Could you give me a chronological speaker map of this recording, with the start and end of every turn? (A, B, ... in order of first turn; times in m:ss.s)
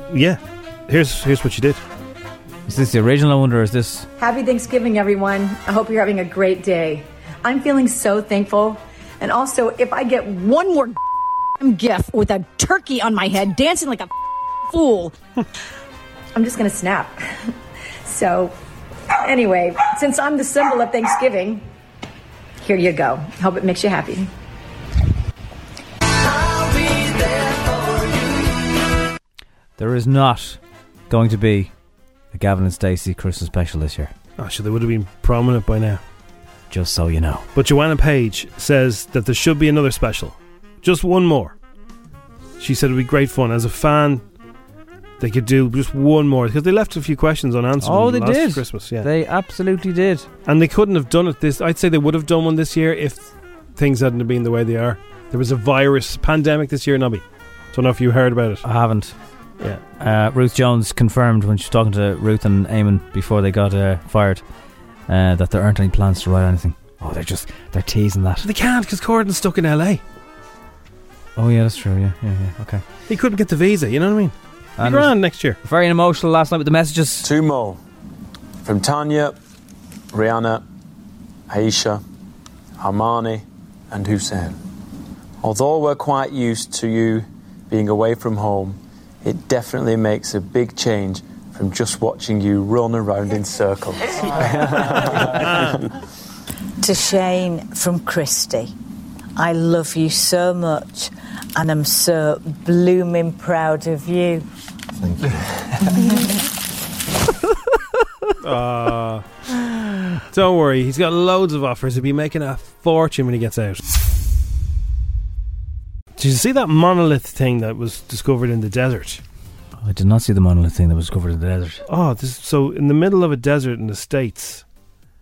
0:00.1-0:01.8 A
0:02.7-0:04.1 B
0:04.2-0:11.0 C
0:11.6-0:14.1 C
0:14.7-0:15.2 C
0:16.3-0:17.2 C
0:18.0-0:18.5 C
0:19.2-0:21.7 C
0:22.6-0:24.3 C
0:29.8-0:31.7 B
0:32.3-0:34.1 B
0:34.4-0:36.0 A
0:36.7-0:37.4 B
0:37.6-0:41.6 A
0:42.6-0:44.2 A
0:45.2-0:49.1 A
0:47.8-0:50.3 B
0:50.5-0:58.6 A
0:58.6-0:59.2 B
1:00.0-1:04.4 B
1:05.1-1:08.5 B
1:08.4-1:10.0 A
1:11.4-1:12.8 B
1:13.1-1:15.6 A
1:14.8-1:17.3 B
1:17.2-1:17.8 D
1:18.6-1:19.4 D
1:20.1-1:20.6 D
1:21.5-1:22.0 D
1:22.8-1:24.6 D
1:25.4-1:35.8 D
1:36.8-1:38.7 E
1:39.4-1:44.4 E
1:48.4-1:49.2 A
1:50.3-1:53.8 A
1:56.2-1:59.2 A
1:59.8-2:01.8 B
2:01.9-2:04.6 A